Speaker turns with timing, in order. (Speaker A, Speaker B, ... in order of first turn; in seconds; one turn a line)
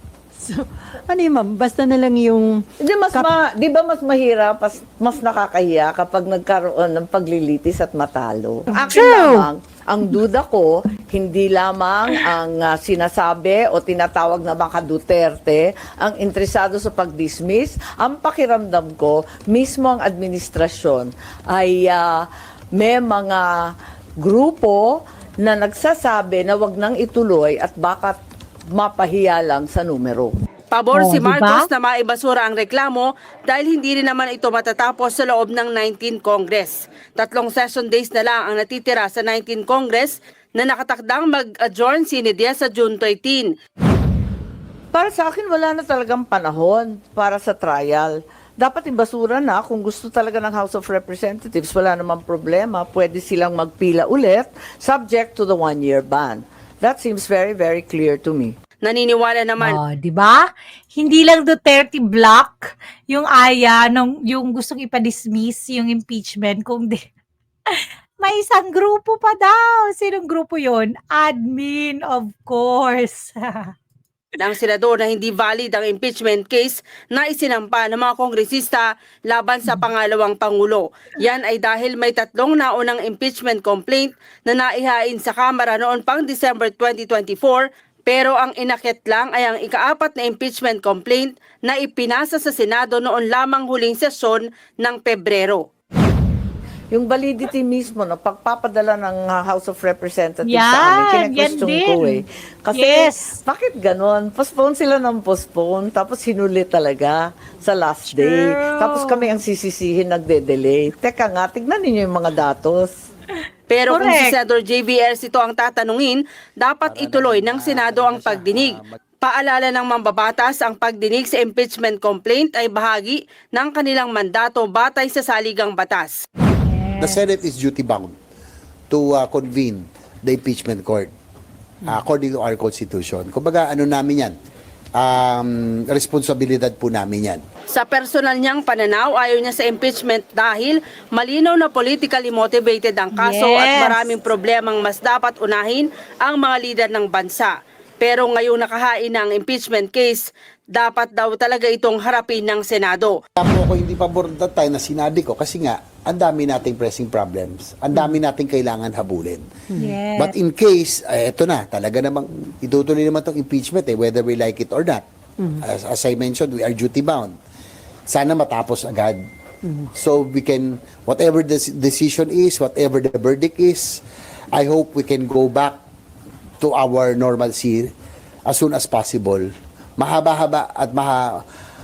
Speaker A: 0.4-3.3
Speaker B: 2.8-28.2
Speaker A: 8.8-9.5
Speaker B: 28.7-30.3
Speaker C: 30.7-43.5
Speaker D: 30.9-31.7
Speaker B: 44.9-58.5
Speaker C: 58.8-59.8
Speaker D: 59.6-67.0
Speaker D: 67.7-73.7
Speaker C: 74.4-95.7
Speaker B: 96.9-112.9
Speaker D: 100.5-103.4
Speaker D: 108.1-109.3
Speaker C: 113.7-126.2
Speaker D: 113.9-114.3
Speaker D: 126.7-127.2
Speaker E: 127.0-128.1
Speaker E: 128.9-131.1
Speaker E: 131.8-134.3
Speaker E: 135.0-137.4
Speaker C: 137.7-153.2
Speaker D: 143.2-144.1
Speaker E: 153.4-159.4
Speaker D: 159.8-160.4
Speaker E: 160.2-165.0
Speaker E: 165.6-167.3
Speaker E: 168.1-169.2
Speaker E: 169.9-174.0
Speaker E: 174.5-175.8
Speaker E: 176.6-177.9
Speaker E: 178.5-181.4